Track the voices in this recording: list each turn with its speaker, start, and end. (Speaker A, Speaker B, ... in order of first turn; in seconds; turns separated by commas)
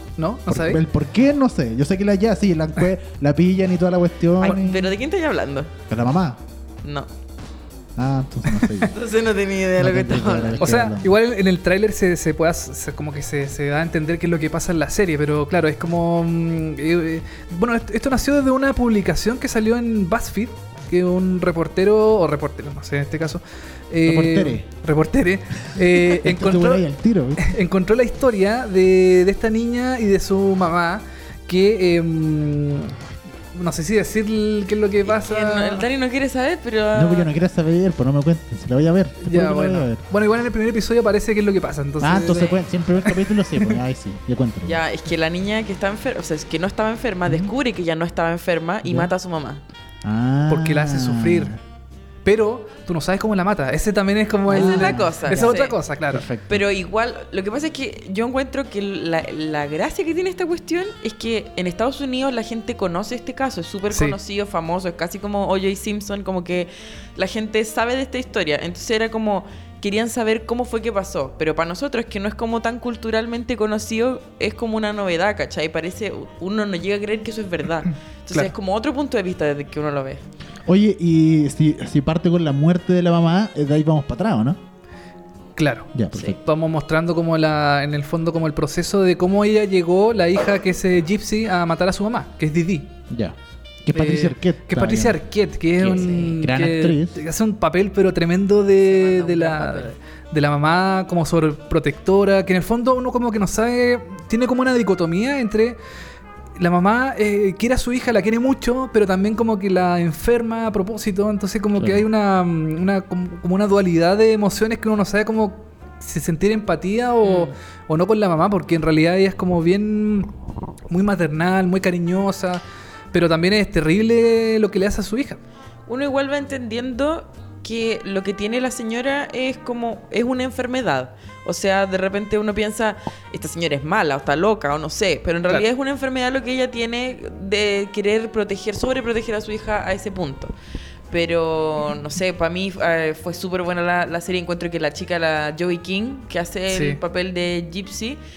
Speaker A: 0.2-0.8, Speaker B: 0.5-5.0, Speaker C: 4.4-5.7, Speaker B: 5.9-6.4, Speaker C: 6.8-7.1, Speaker B: 8.0-8.9, Speaker C: 8.9-10.8, Speaker B: 9.8-11.1, Speaker A: 10.6-26.9, Speaker B: 24.1-24.7, Speaker B: 26.0-27.5, Speaker A: 27.4-32.9, Speaker A: 33.5-35.9, Speaker C: 35.1-37.3, Speaker B: 36.9-40.0, Speaker A: 39.2-43.8, Speaker B: 42.0-44.8, Speaker C: 42.1-42.6, Speaker C: 44.6-49.6, Speaker B: 47.3-47.5, Speaker B: 48.8-49.1, Speaker B: 50.0-51.6, Speaker A: 50.5-51.6, Speaker A: 52.2-56.2, Speaker B: 54.5-56.7, Speaker C: 54.5-55.8, Speaker C: 56.5-80.2, Speaker A: 63.9-64.2, Speaker B: 80.7-84.6, Speaker A: 85.6-92.9, Speaker B: 85.9-86.4, Speaker B: 93.1-95.2, Speaker A: 93.9-105.8, Speaker B: 95.8-97.2, Speaker C: 95.9-96.3, Speaker C: 98.8-100.0, Speaker A: 106.6-120.3, Speaker B: 111.7-112.1, Speaker C: 117.2-117.5, Speaker A: 120.9-125.4, Speaker C: 125.9-140.5, Speaker C: 141.1-148.2, Speaker A: 146.7-147.0